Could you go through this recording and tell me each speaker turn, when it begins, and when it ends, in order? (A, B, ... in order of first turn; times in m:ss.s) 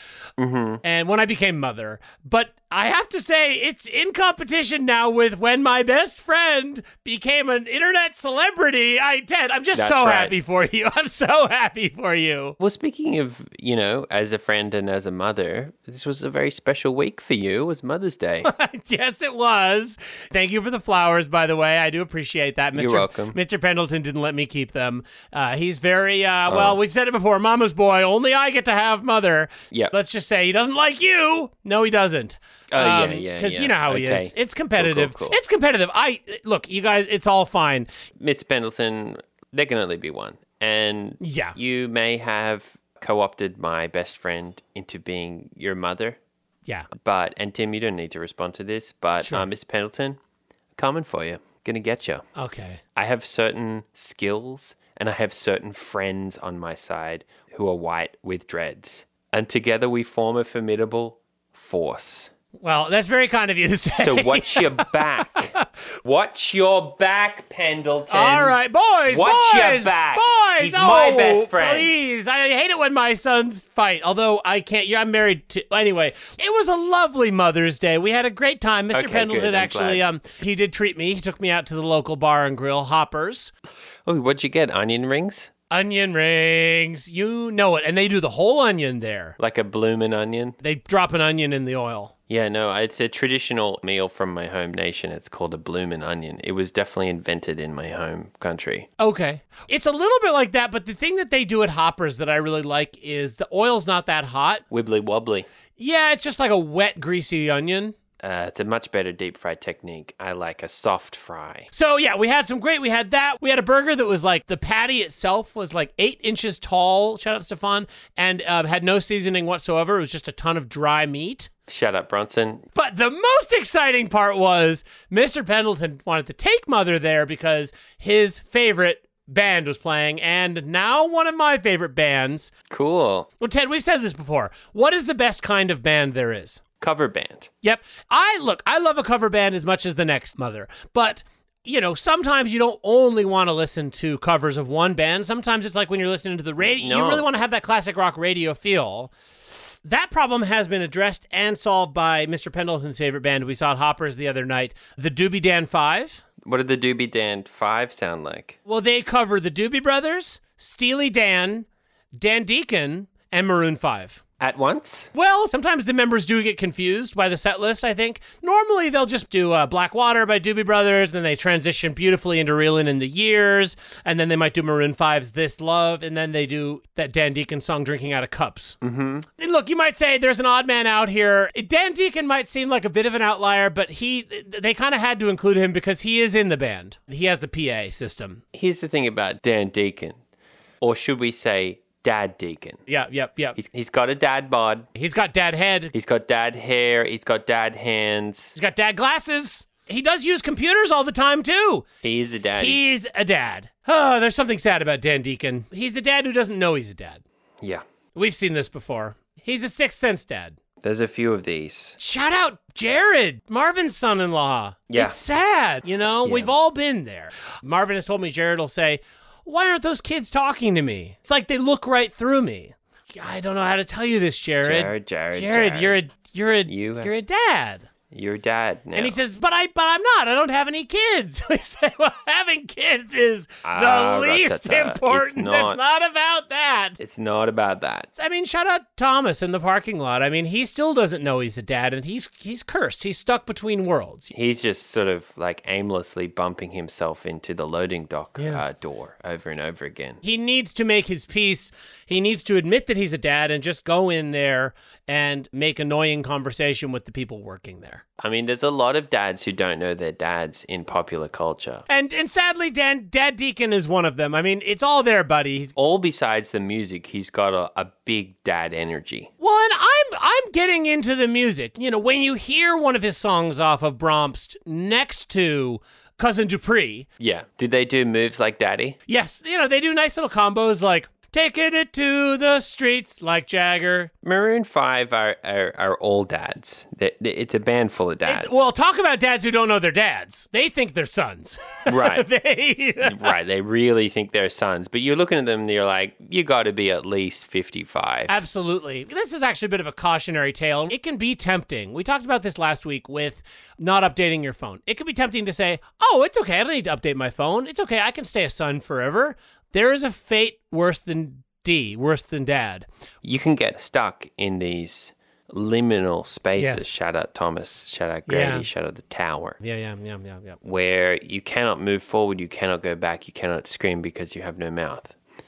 0:00.4-0:00.8 A
0:00.8-0:12.6 B
0:09.8-0:10.3 A
0:12.6-0:18.5 A
0:18.4-0:37.9 B
0:22.8-0:23.4 A
0:26.5-0:26.8 A
0:32.7-0:35.4 A
0:38.2-0:46.2 A
0:41.2-0:41.6 B
0:46.9-0:50.2 A
0:50.8-0:52.2 A
0:52.4-0:52.8 B
0:53.0-1:02.3 A
1:02.6-1:05.6 B
1:04.0-1:08.6 A
1:08.1-1:23.5 B
1:09.1-1:11.9 A
1:18.9-1:20.0 A
1:24.0-1:25.5 A
1:25.7-1:29.4 B
1:29.4-1:30.6 A
1:30.6-1:32.1 B
1:32.3-1:38.9 A
1:39.0-1:44.6 B
1:44.7-1:45.5 A
1:45.8-1:48.0 B
1:48.2-1:51.7 A
1:51.7-2:01.5 B
2:01.7-2:02.6 A
2:02.8-2:12.5 B
2:12.7-2:13.3 A
2:13.4-2:16.6 B
2:16.8-2:17.5 A
2:17.6-2:29.1 B
2:26.6-2:27.2 A
2:29.8-2:36.2 B
2:36.4-2:38.6 A
2:38.7-2:44.2 B
2:44.4-2:45.1 A
2:45.1-2:58.8 B
2:58.8-2:59.3 A
2:59.4-3:08.4 B
3:08.5-3:10.2 A
3:10.8-3:12.8 A
3:12.9-3:13.6 B
3:13.6-3:14.9 A
3:15.0-3:15.9 B
3:15.9-3:18.6 A
3:18.6-3:21.9 B
3:22.0-3:22.8 A
3:22.6-3:27.2 B
3:28.2-3:30.6 B
3:30.8-3:32.0 A
3:32.0-3:47.9 B
3:34.9-3:35.2 A
3:36.2-3:36.5 A
3:44.6-3:46.0 A
3:46.7-3:47.1 A
3:48.1-3:49.2 A
3:49.0-3:57.0 B
3:53.6-3:55.8 A
3:57.0-3:58.1 A
3:58.2-4:04.3 B
4:04.3-4:10.2 A
4:08.4-4:08.6 B
4:10.2-4:18.0 B
4:18.2-4:21.9 A
4:21.9-4:25.7 B
4:25.8-4:29.3 A
4:29.4-4:37.1 B
4:37.2-4:39.0 A
4:39.1-4:44.1 B
4:44.2-4:48.7 A
4:48.2-4:53.3 B
4:51.9-4:52.3 A
4:53.0-4:58.4 A
4:58.3-5:12.9 B
5:13.2-5:19.6 A
5:16.6-5:16.9 B
5:18.3-5:18.7 B
5:19.6-5:20.6 B
5:20.6-5:25.2 A